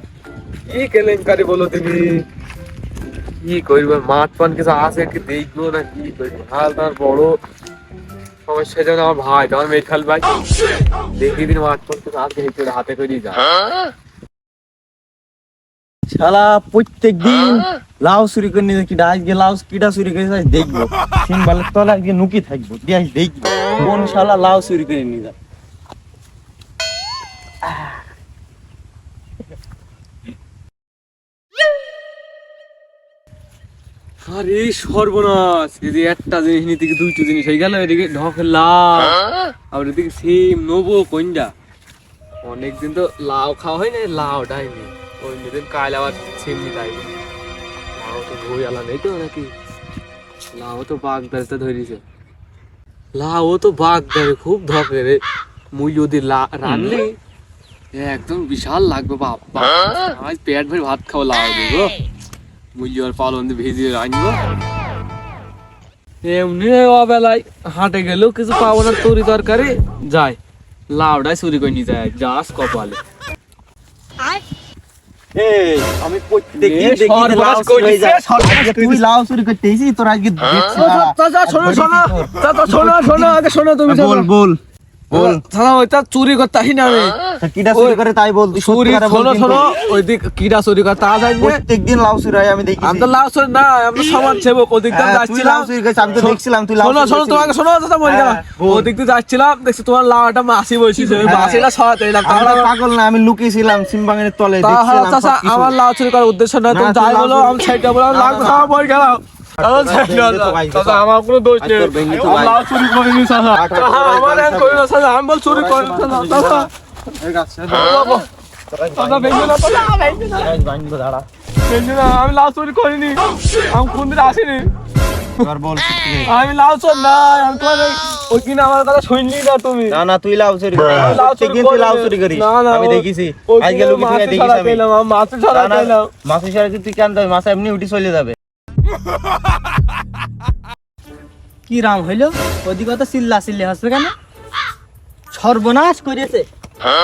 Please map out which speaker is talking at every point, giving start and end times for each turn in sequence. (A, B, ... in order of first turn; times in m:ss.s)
0:00.7-0:02.2 A
0:03.4-0:07.4 A
0:08.5-0:10.3 A
0:11.2-0:13.4 A
0:16.1-0:25.3 B
0:34.2-0:39.2 A
0:39.7-0:41.5 A
0:42.4-0:47.1 A
0:48.0-0:49.5 A
0:50.5-0:52.0 A
0:53.1-0:55.2 A
0:55.7-0:57.1 A
0:57.9-1:02.0 A
1:02.7-1:04.4 A
1:06.2-1:10.4 A
1:10.9-1:13.0 A
1:15.3-1:24.6 B
1:16.5-1:19.0 A
1:20.7-1:24.3 A
1:25.1-1:25.4 B
1:25.1-1:27.2 A
1:27.4-1:29.7 B
1:27.7-1:28.0 A
1:28.5-1:31.6 A
1:31.4-1:33.1 B
1:32.8-1:42.7 A
1:34.9-1:38.9 B
1:41.2-1:41.7 B
1:42.2-1:45.7 B
1:44.6-1:56.7 A
1:46.7-1:48.7 B
1:49.6-1:51.0 B
1:51.6-1:52.6 B
1:53.5-1:54.8 B
1:55.4-1:58.1 B
1:57.7-1:58.2 A
1:58.7-1:59.5 B
1:59.0-2:00.5 A
2:00.4-2:01.2 B
2:01.7-2:04.7 A
2:05.4-2:06.3 B
2:06.2-2:10.0 A
2:09.9-2:14.8 B
2:10.8-2:16.1 A
2:15.5-2:18.4 B
2:21.7-2:24.1 C
2:25.3-2:26.5 C